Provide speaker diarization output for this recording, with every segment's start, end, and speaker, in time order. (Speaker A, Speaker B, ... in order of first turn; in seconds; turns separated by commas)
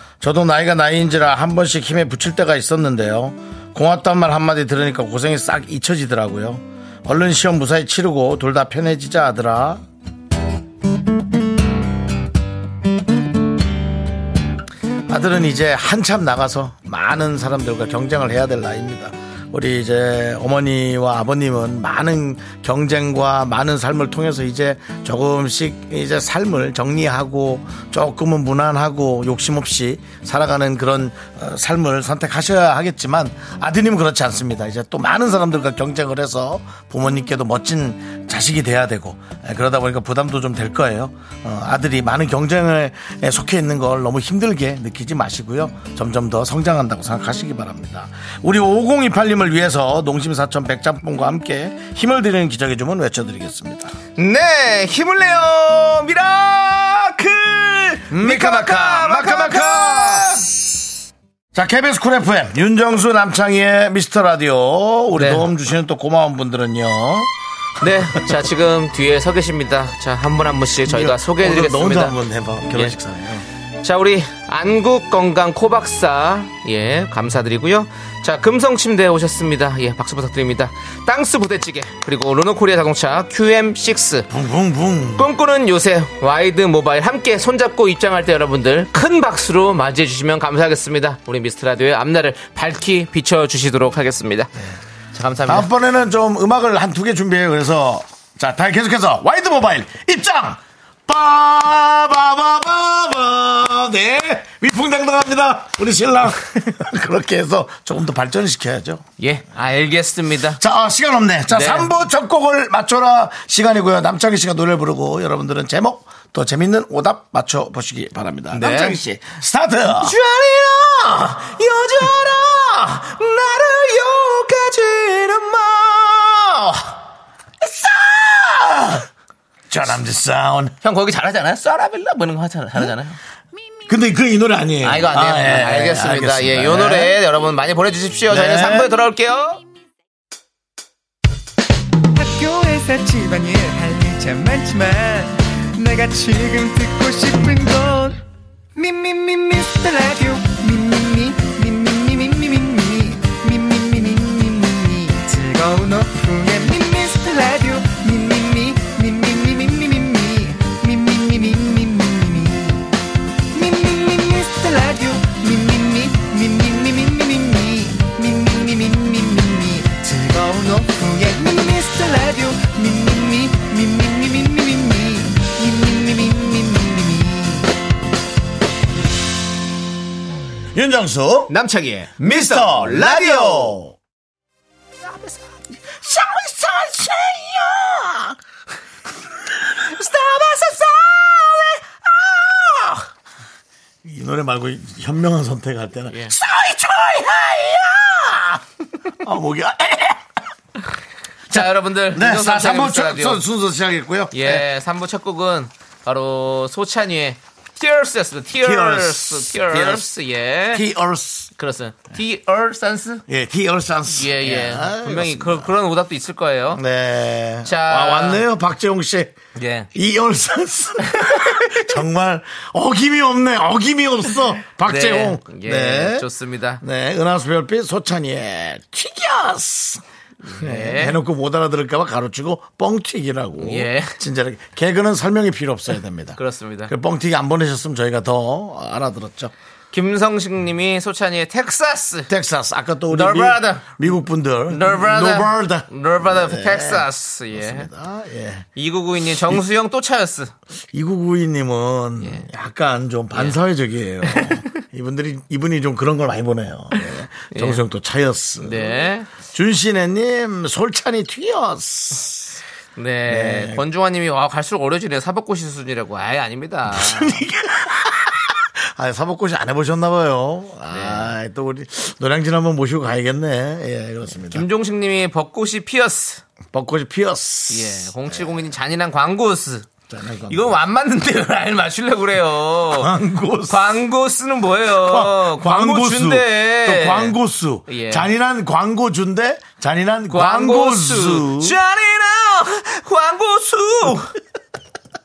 Speaker A: 0.2-9.8, Speaker A: 15.1-53.9, Speaker B: 54.2-60.5, Speaker A: 58.1-60.4, Speaker A: 61.5-67.3, Speaker B: 65.2-65.5, Speaker B: 67.8-72.2, Speaker A: 70.8-73.5, Speaker B: 73.8-84.3, Speaker A: 84.3-85.3, Speaker B: 85.2-94.5, Speaker B: 95.1-95.7, Speaker A: 95.5-109.0, Speaker B: 109.2-110.6, Speaker A: 110.6-120.1, Speaker B: 111.5-111.9, Speaker B: 118.5-119.0, Speaker B: 120.0-127.0, Speaker A: 127.6-129.1, Speaker A: 129.7-130.8, Speaker B: 130.8-133.2, Speaker A: 133.9-137.2, Speaker B: 134.8-139.6, Speaker A: 138.3-138.9, Speaker C: 142.2-148.2, Speaker C: 148.8-162.9, Speaker C: 163.5-177.7, Speaker A: 180.7-181.5, Speaker B: 181.5-183.8, Speaker A: 182.2-184.0, Speaker A: 185.8-188.4, Speaker B: 189.9-191.8, Speaker B: 192.6-193.0, Speaker A: 194.0-198.6, Speaker B: 196.1-196.4, Speaker A: 199.2-200.2, Speaker B: 201.5-203.4, Speaker A: 201.5-204.7, Speaker B: 204.3-210.8, Speaker A: 208.6-210.1, Speaker A: 210.7-211.5, Speaker B: 211.6-213.2, Speaker A: 213.3-215.7, Speaker B: 214.1-216.8, Speaker A: 216.7-219.3, Speaker B: 217.7-218.4, Speaker B: 219.6-219.9, Speaker A: 219.9-226.3, Speaker B: 221.2-221.8, Speaker B: 224.8-226.8, Speaker A: 226.8-230.0, Speaker B: 230.4-231.2, Speaker A: 230.6-239.5, Speaker B: 233.6-234.2, Speaker B: 236.4-236.9, Speaker B: 239.9-242.3, Speaker A: 242.3-248.7, Speaker B: 243.1-243.9, Speaker B: 244.7-247.9, Speaker B: 248.8-250.5, Speaker A: 250.9-262.5, Speaker B: 252.2-252.5, Speaker B: 254.3-254.6, Speaker B: 257.5-257.8, Speaker B: 258.6-259.3, Speaker B: 263.0-267.4, Speaker A: 263.3-263.8, Speaker A: 266.9-274.7, Speaker B: 270.9-271.3, Speaker B: 274.5-276.4, Speaker A: 276.7-278.6, Speaker B: 277.7-279.9, Speaker A: 280.1-280.8, Speaker B: 280.5-283.1, Speaker A: 282.9-284.0, Speaker B: 283.7-287.4, Speaker A: 285.0-291.8, Speaker B: 287.9-288.3, Speaker B: 290.3-294.3